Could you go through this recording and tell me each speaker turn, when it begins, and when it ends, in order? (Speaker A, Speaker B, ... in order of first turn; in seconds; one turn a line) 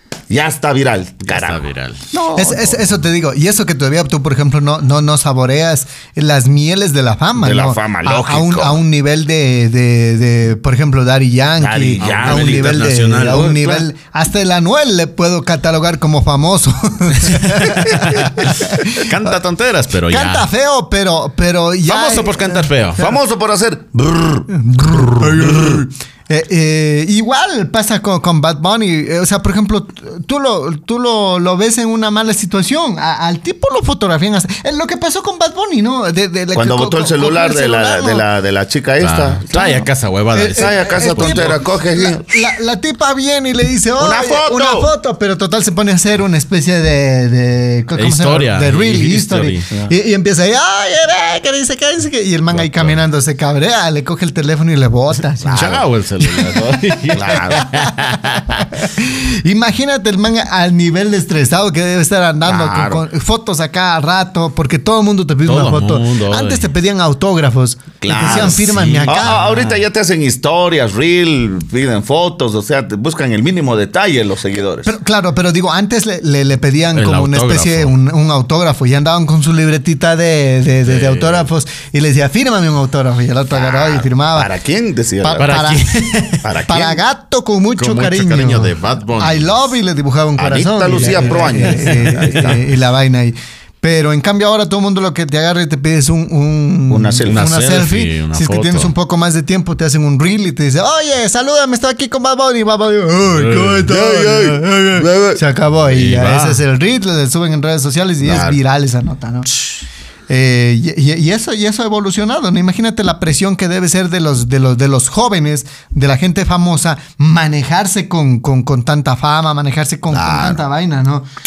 Speaker A: 0.3-2.9
Speaker B: 1.2-2.0
Speaker C: 2.3-19.3
Speaker A: 7.4-8.8
Speaker A: 11.6-12.7
Speaker B: 12.0-13.9
Speaker B: 17.2-20.5
Speaker C: 20.1-23.1
Speaker B: 21.9-23.0
Speaker A: 23.0-25.8
Speaker C: 24.5-38.2
Speaker A: 36.5-39.8
Speaker B: 39.0-41.6
Speaker C: 39.5-55.7
Speaker A: 40.5-42.4
Speaker A: 44.0-44.9
Speaker B: 47.9-49.7
Speaker B: 52.5-53.0
Speaker A: 55.4-55.9
Speaker B: 55.5-58.6
Speaker C: 56.2-69.7
Speaker A: 57.1-57.6
Speaker A: 62.4-63.0
Speaker B: 65.4-66.7
Speaker A: 68.0-74.9
Speaker B: 68.3-69.7
Speaker C: 74.8-84.5
Speaker B: 76.9-77.9
Speaker B: 80.8-81.5
Speaker A: 83.5-85.5
Speaker C: 85.2-109.5
Speaker B: 85.4-86.5
Speaker A: 86.4-87.0
Speaker B: 87.8-89.7
Speaker A: 90.4-92.7
Speaker B: 91.1-92.5
Speaker A: 96.9-97.4
Speaker B: 97.3-98.9
Speaker B: 103.4-103.8
Speaker A: 103.8-105.4
Speaker B: 105.9-106.6
Speaker A: 108.2-108.6
Speaker C: 110.3-121.2
Speaker A: 120.1-120.6